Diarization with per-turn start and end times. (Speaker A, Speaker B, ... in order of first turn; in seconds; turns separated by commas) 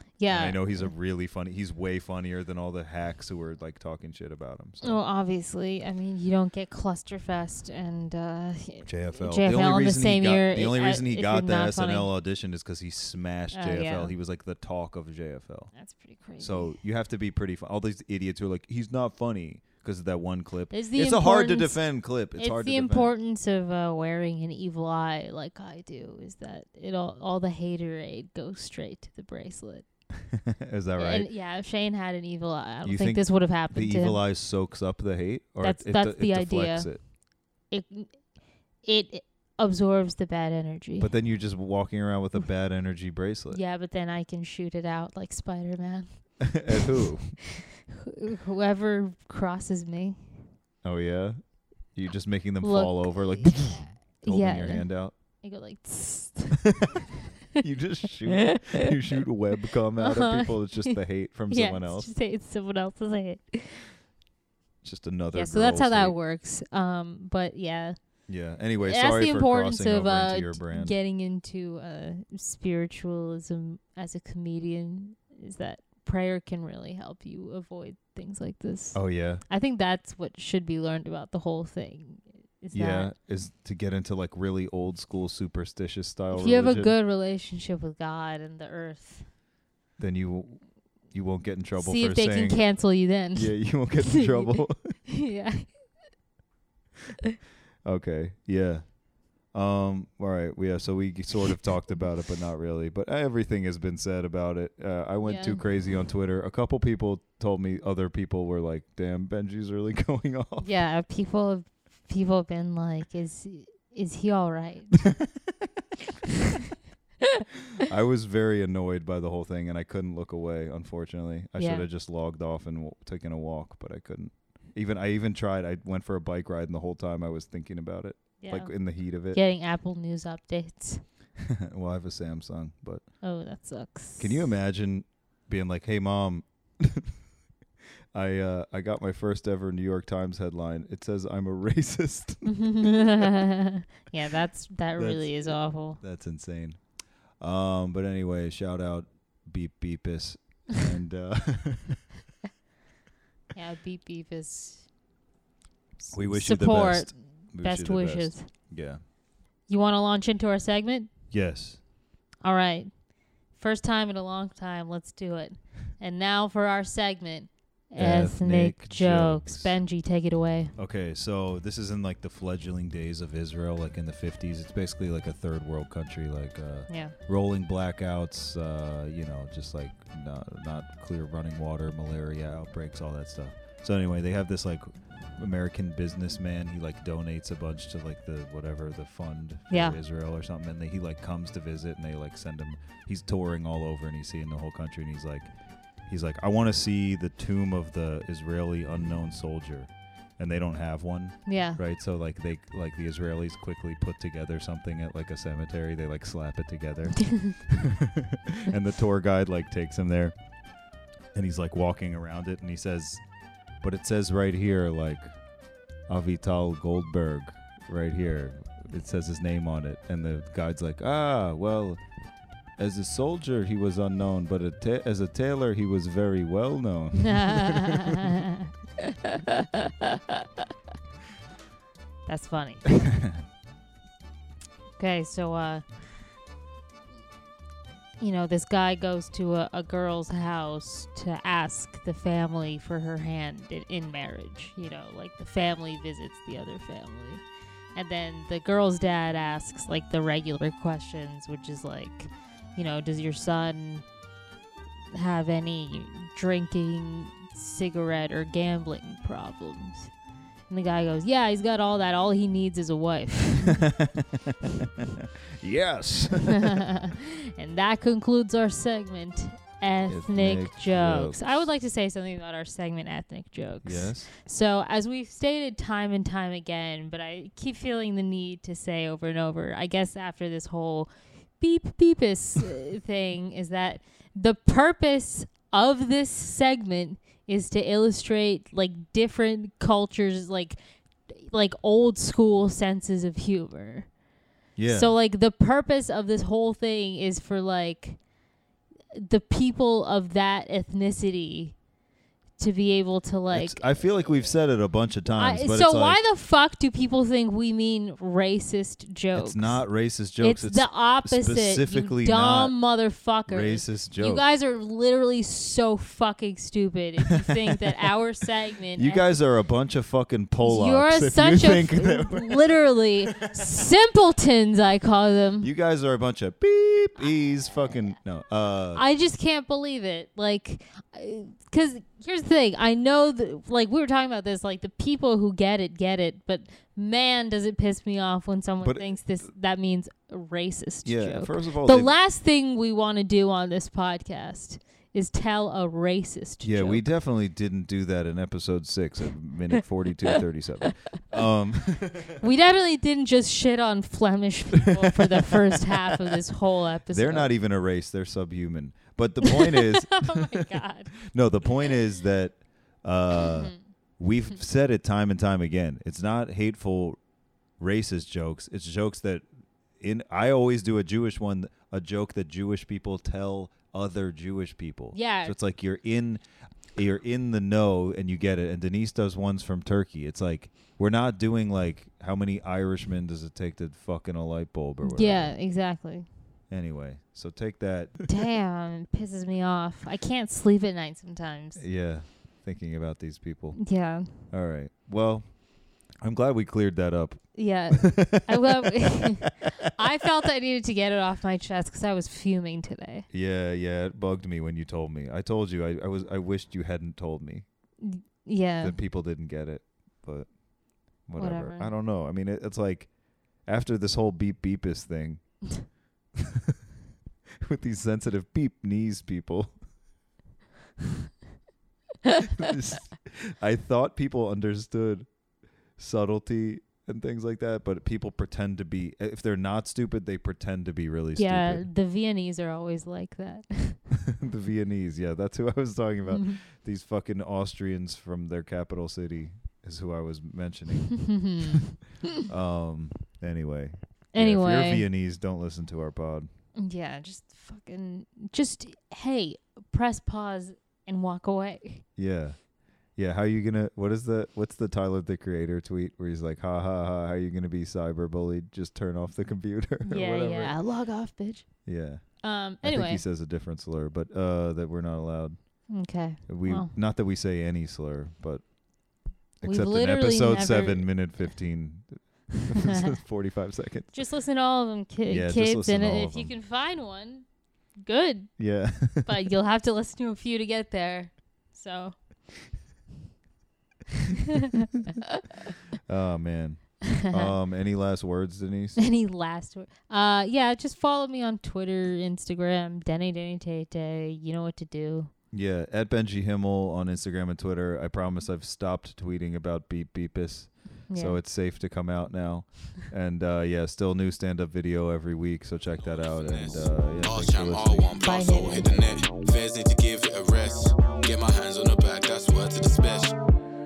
Speaker A: 0.2-0.9, Speaker B: 0.3-5.0, Speaker A: 4.8-12.1, Speaker B: 8.8-15.7, Speaker A: 13.5-14.1, Speaker A: 15.7-16.8, Speaker B: 16.4-23.1, Speaker A: 20.7-29.9, Speaker B: 30.2-31.3, Speaker A: 31.0-34.2, Speaker B: 32.8-37.0, Speaker A: 35.6-37.1, Speaker A: 37.7-41.1, Speaker B: 41.0-43.6, Speaker A: 43.5-50.4, Speaker B: 46.4-47.4, Speaker B: 50.8-55.1, Speaker A: 52.6-56.9, Speaker B: 57.5-62.1, Speaker A: 60.0-63.9, Speaker B: 64.8-66.2, Speaker A: 65.3-68.0, Speaker B: 68.3-71.0, Speaker A: 68.8-83.1, Speaker B: 78.9-79.4, Speaker B: 82.7-86.9, Speaker A: 86.3-89.3, Speaker B: 90.0-92.7, Speaker A: 91.8-94.6, Speaker B: 93.3-95.0, Speaker A: 95.1-95.7, Speaker B: 97.8-99.0, Speaker B: 99.5-110.7, Speaker A: 105.2-105.6, Speaker A: 110.6-115.2, Speaker B: 117.8-129.4, Speaker A: 121.6-121.8, Speaker A: 128.4-128.7, Speaker A: 129.3-131.0, Speaker B: 131.4-133.1, Speaker A: 133.2-134.4, Speaker B: 134.2-137.2, Speaker B: 138.1-143.2, Speaker A: 142.4-146.0, Speaker B: 144.9-146.8, Speaker B: 147.4-152.1, Speaker A: 153.5-154.9, Speaker A: 156.0-158.5, Speaker B: 156.1-159.0, Speaker A: 159.7-161.1, Speaker B: 161.3-161.8, Speaker A: 162.4-163.0, Speaker A: 163.5-170.7, Speaker B: 168.0-169.7, Speaker B: 170.8-195.5, Speaker A: 176.9-177.1, Speaker A: 189.7-190.0, Speaker B: 196.1-210.3, Speaker A: 201.4-201.8, Speaker B: 211.3-213.2, Speaker B: 213.8-215.4, Speaker B: 216.1-222.0, Speaker B: 222.8-228.2, Speaker A: 227.2-230.5, Speaker A: 232.2-232.9, Speaker B: 233.0-233.4, Speaker A: 235.0-235.8, Speaker A: 238.2-247.4, Speaker A: 247.9-254.0, Speaker A: 255.1-260.1, Speaker A: 260.7-263.8, Speaker B: 263.6-266.8, Speaker A: 266.6-294.1, Speaker B: 270.1-271.6, Speaker B: 273.8-274.3, Speaker B: 294.8-295.1, Speaker A: 294.9-298.2, Speaker A: 299.1-301.8, Speaker A: 302.6-304.1, Speaker B: 303.5-306.2, Speaker A: 305.3-309.8, Speaker B: 309.3-312.8, Speaker A: 310.4-319.3, Speaker B: 313.4-314.4, Speaker B: 318.9-322.9, Speaker A: 320.6-325.7, Speaker B: 325.6-329.0, Speaker A: 328.9-347.0, Speaker B: 338.8-339.2, Speaker B: 341.0-342.1, Speaker B: 346.6-352.4, Speaker A: 352.4-357.5, Speaker B: 354.9-355.9, Speaker B: 357.1-360.7, Speaker A: 359.4-361.1, Speaker B: 361.2-367.2, Speaker A: 363.5-363.8, Speaker B: 367.8-369.4, Speaker B: 370.0-385.5, Speaker A: 375.1-375.6, Speaker A: 385.0-386.3, Speaker B: 386.7-388.2, Speaker A: 388.2-391.8, Speaker B: 391.8-393.8, Speaker A: 393.8-394.3, Speaker B: 394.4-399.7, Speaker A: 397.5-403.2, Speaker B: 403.3-407.6, Speaker A: 408.0-408.9, Speaker B: 408.8-410.5, Speaker B: 411.2-415.5, Speaker A: 411.4-411.9, Speaker B: 416.4-416.8, Speaker B: 417.6-419.8, Speaker B: 422.4-425.3, Speaker B: 426.0-431.9, Speaker A: 431.4-434.0, Speaker B: 434.2-441.8, Speaker A: 436.3-436.6, Speaker A: 441.3-441.9, Speaker B: 442.4-446.5, Speaker A: 444.3-445.0, Speaker A: 446.8-452.0, Speaker B: 452.1-452.6, Speaker B: 453.1-460.8, Speaker A: 460.0-461.9, Speaker B: 461.8-468.7, Speaker A: 462.4-463.2, Speaker A: 465.9-466.9, Speaker B: 469.6-474.1, Speaker A: 469.6-471.1, Speaker A: 472.6-473.1, Speaker A: 474.1-477.5, Speaker B: 475.3-476.5, Speaker A: 478.0-478.6, Speaker B: 478.6-479.4, Speaker A: 479.2-482.2, Speaker B: 486.1-489.0, Speaker A: 487.1-487.5, Speaker A: 489.0-495.3, Speaker B: 495.5-508.1, Speaker A: 501.1-501.4, Speaker C: 506.1-513.4, Speaker A: 508.2-509.0